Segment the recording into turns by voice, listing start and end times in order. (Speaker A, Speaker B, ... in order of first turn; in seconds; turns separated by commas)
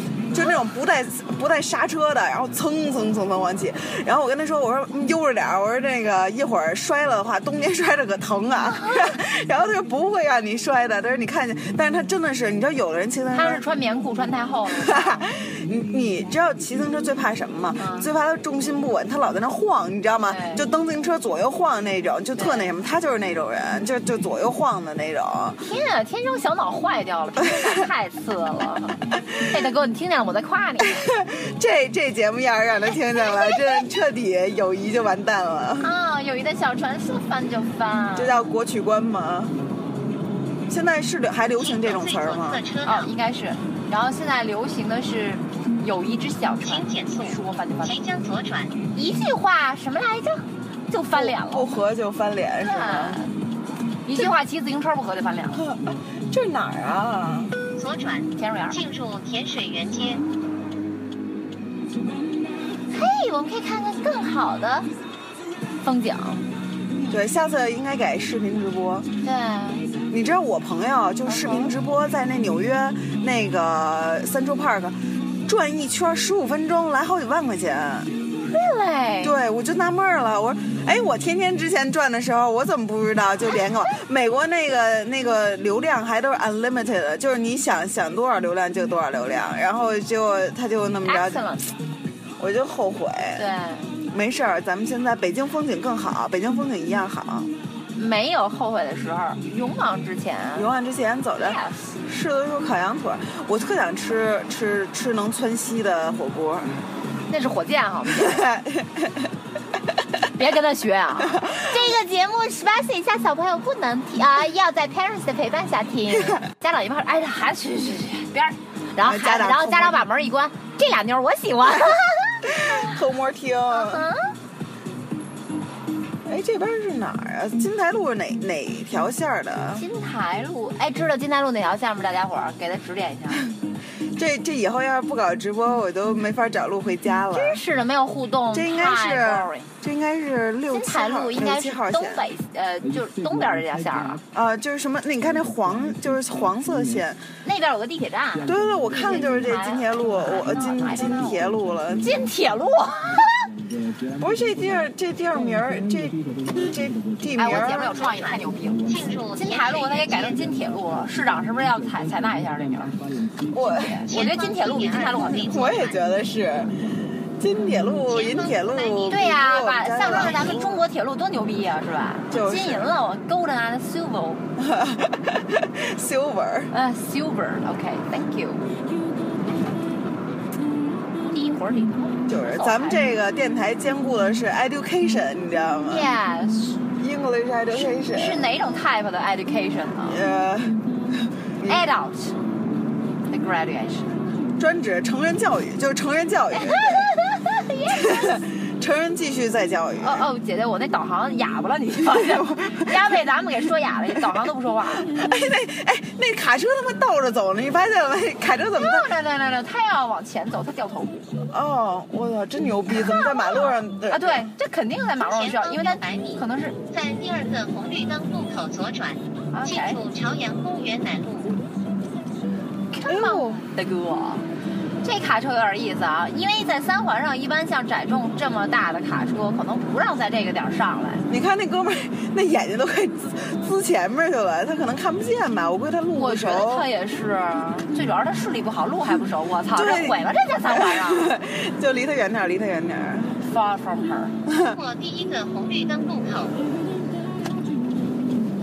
Speaker A: 0.3-13.6, Speaker B: 8.6-9.1, Speaker B: 13.3-15.3, Speaker A: 14.7-25.6, Speaker B: 17.8-18.1, Speaker B: 20.3-20.6, Speaker B: 22.3-22.7, Speaker B: 25.6-31.1, Speaker A: 27.4-27.9, Speaker A: 30.8-35.9, Speaker B: 32.9-33.8, Speaker B: 35.8-38.4, Speaker A: 38.1-39.5, Speaker A: 40.7-42.6, Speaker C: 41.6-43.1, Speaker B: 42.8-48.1, Speaker C: 46.6-48.7, Speaker B: 48.9-51.8, Speaker A: 51.1-53.2, Speaker B: 52.6-53.3, Speaker B: 54.0-55.6, Speaker A: 55.5-55.8, Speaker A: 56.3-57.6, Speaker C: 57.8-60.2, Speaker B: 58.4-58.8, Speaker B: 62.9-64.9, Speaker B: 65.8-66.5, Speaker A: 67.1-69.0, Speaker B: 69.2-69.9, Speaker A: 70.1-78.1, Speaker B: 71.3-71.7, Speaker B: 78.4-79.3, Speaker A: 79.2-91.5, Speaker B: 91.0-91.7, Speaker A: 92.4-93.5, Speaker B: 93.3-93.9, Speaker A: 94.1-97.5, Speaker B: 97.9-100.7, Speaker A: 100.5-106.8, Speaker B: 101.3-101.9, Speaker B: 107.3-108.5, Speaker A: 108.1-109.3, Speaker B: 110.3-122.9, Speaker A: 111.3-111.9, Speaker A: 119.0-120.0, Speaker A: 122.4-124.1, Speaker B: 123.7-124.3, Speaker A: 126.2-129.8, Speaker B: 129.7-133.5, Speaker A: 134.1-137.6, Speaker B: 137.3-139.7, Speaker A: 138.5-142.3, Speaker B: 140.7-144.2, Speaker A: 144.3-147.2, Speaker B: 147.4-151.4, Speaker A: 148.4-152.2, Speaker B: 152.0-153.5, Speaker A: 154.2-158.1, Speaker B: 157.3-162.9, Speaker C: 157.7-160.4, Speaker A: 163.5-164.0, Speaker B: 163.6-165.6, Speaker C: 164.1-166.0, Speaker A: 165.4-166.8, Speaker A: 167.4-170.8, Speaker C: 168.1-169.3, Speaker B: 169.1-174.4, Speaker C: 170.0-170.6, Speaker A: 172.3-172.9, Speaker A: 174.6-176.7, Speaker B: 176.7-178.6, Speaker B: 181.2-183.1, Speaker A: 182.3-186.1, Speaker B: 185.8-186.8, Speaker A: 186.9-188.4, Speaker B: 187.7-190.2, Speaker A: 190.1-190.8, Speaker A: 191.6-191.9, Speaker B: 191.6-192.4, Speaker B: 193.3-194.2, Speaker A: 194.6-197.1, Speaker B: 196.5-198.4, Speaker A: 197.9-200.3, Speaker B: 200.0-205.1, Speaker A: 202.0-203.2, Speaker A: 205.1-209.1, Speaker B: 208.8-211.3, Speaker A: 211.5-214.5, Speaker B: 212.9-216.8, Speaker C: 215.2-221.5, Speaker B: 219.5-220.0, Speaker B: 222.9-224.4, Speaker A: 223.0-223.6, Speaker B: 225.0-231.2, Speaker A: 231.3-236.9, Speaker B: 236.1-241.3, Speaker A: 239.7-243.3, Speaker B: 243.4-244.3, Speaker A: 244.5-244.8, Speaker C: 244.6-246.7